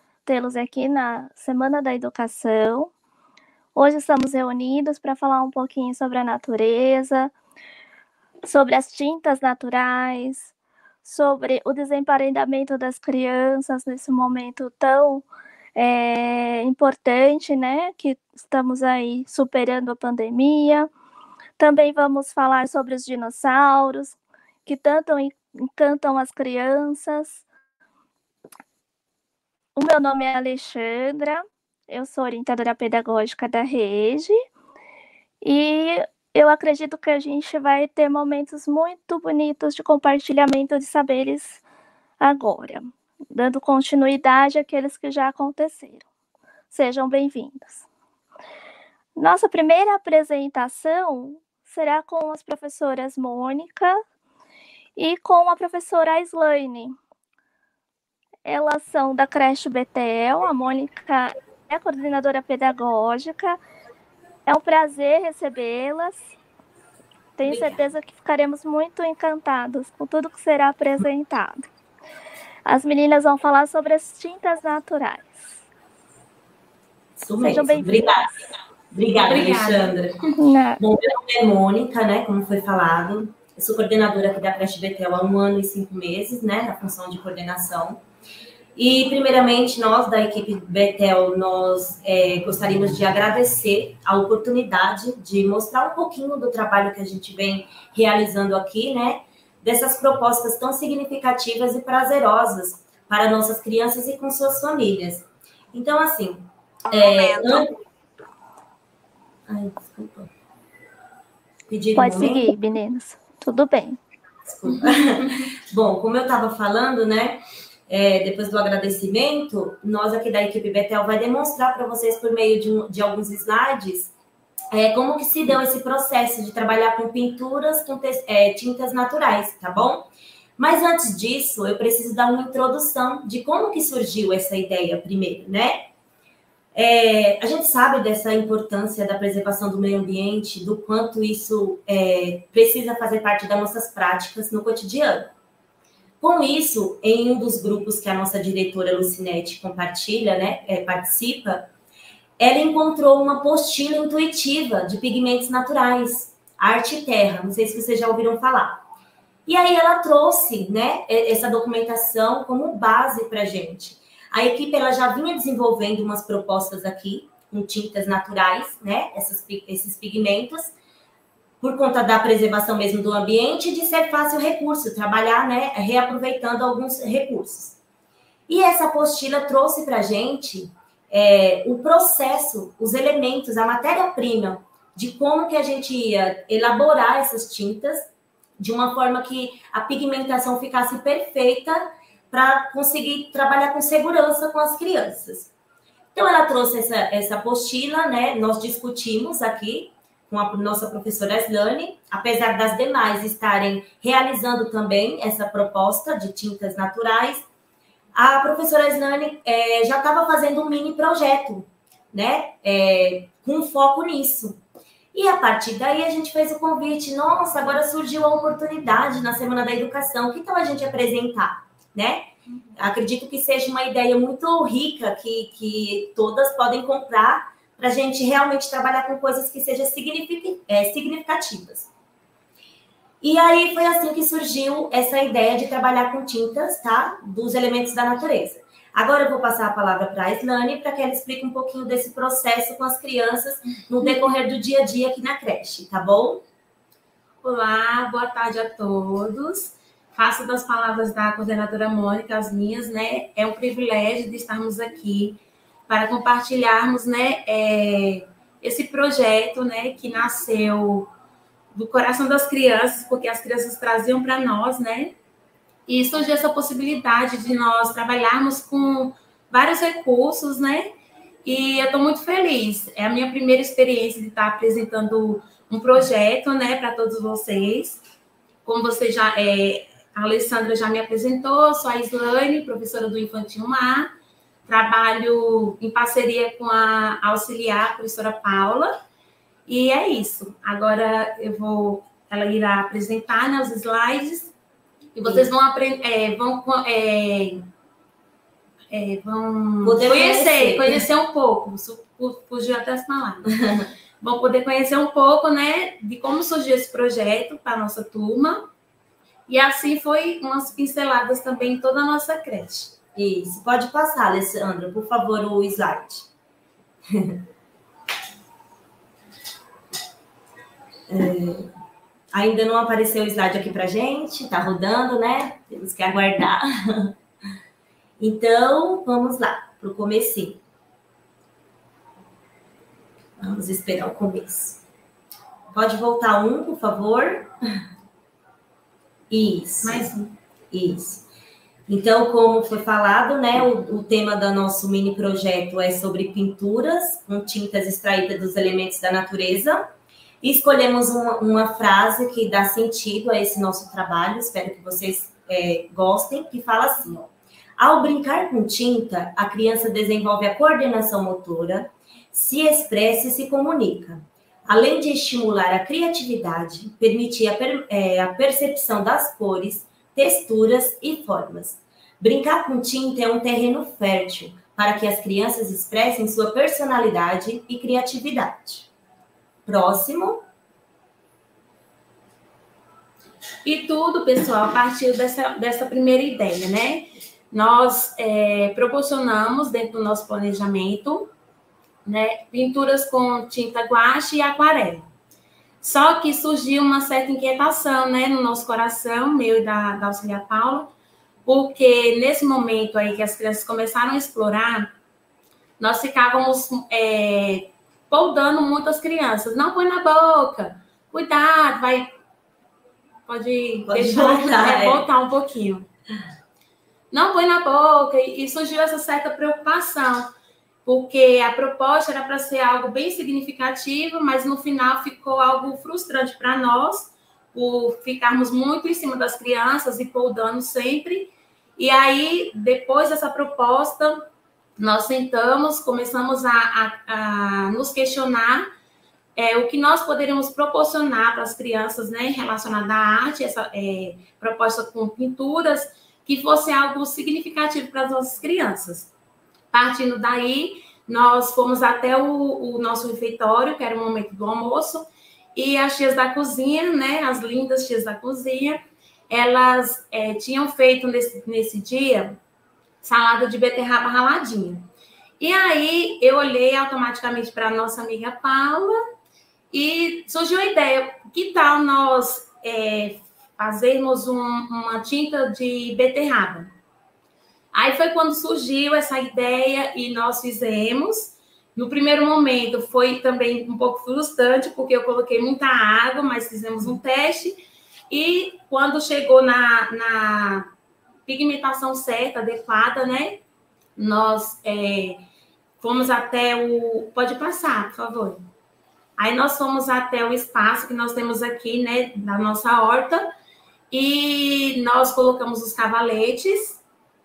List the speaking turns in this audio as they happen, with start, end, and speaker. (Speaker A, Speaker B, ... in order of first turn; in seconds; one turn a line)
Speaker A: 0.2-2.9
Speaker A: 3.7-7.3
Speaker A: 8.4-10.5
Speaker A: 11.0-20.9
Speaker A: 21.6-27.4
Speaker A: 29.8-34.4
Speaker A: 35.4-41.6
Speaker A: 42.2-46.0
Speaker A: 46.7-47.8
Speaker A: 49.1-54.0
Speaker A: 55.0-56.9
Speaker A: 58.4-63.6
Speaker A: 64.5-66.3
Speaker A: 67.4-71.7
Speaker B: 67.5-67.7
Speaker A: 72.7-75.6
Speaker B: 77.2-88.0
Speaker A: 77.4-78.0
Speaker C: 79.1-80.0
Speaker A: 80.4-80.8
Speaker B: 88.8-107.8
Speaker B: 109.5-110.3
Speaker B: 111.7-112.5
Speaker A: 112.0-114.0
Speaker B: 114.4-124.1
Speaker B: 124.7-135.9
Speaker B: 136.7-145.3
Speaker B: 146.2-151.7
Speaker B: 152.4-158.8
Speaker B: 159.4-170.7
Speaker B: 171.6-177.8
Speaker B: 178.5-195.5
Speaker B: 196.1-207.4
Speaker B: 208.1-214.6
Speaker B: 215.1-231.9
Speaker B: 233.2-246.4
Speaker C: 247.4-261.1
Speaker C: 261.7-265.1
Speaker C: 265.9-270.9
Speaker C: 271.4-278.0
Speaker C: 278.6-284.1
Speaker C: 284.7-288.9
Speaker C: 289.7-294.5
Speaker C: 295.1-297.6
Speaker B: 295.2-295.5
Speaker C: 298.9-303.5
Speaker B: 299.8-301.1
Speaker C: 304.2-308.7
Speaker C: 309.5-312.9
Speaker B: 313.1-316.3
Speaker B: 317.1-317.4
Speaker B: 321.1-321.7
Speaker B: 322.3-327.1
Speaker B: 328.2-330.6
Speaker B: 333.4-334.8
Speaker B: 335.7-337.5
Speaker B: 339.3-340.1
Speaker C: 339.8-340.3
Speaker B: 340.7-341.2
Speaker B: 341.9-349.9
Speaker B: 350.4-378.9
Speaker B: 379.7-380.4
Speaker C: 383.6-391.3
Speaker C: 392.1-395.1
Speaker C: 395.8-400.9
Speaker C: 401.4-404.9
Speaker C: 405.8-412.1
Speaker C: 413.3-415.9
Speaker B: 413.9-415.1
Speaker C: 417.1-420.3
Speaker C: 420.8-434.2
Speaker C: 434.8-438.7
Speaker C: 439.4-449.1
Speaker C: 449.7-462.4
Speaker C: 463.0-464.8
Speaker C: 465.4-469.0
Speaker C: 469.7-476.7
Speaker C: 477.7-487.6
Speaker C: 488.1-490.7
Speaker C: 491.3-493.4
Speaker C: 494.0-495.2
Speaker C: 495.8-498.4
Speaker C: 499.2-503.3
Speaker C: 503.9-506.8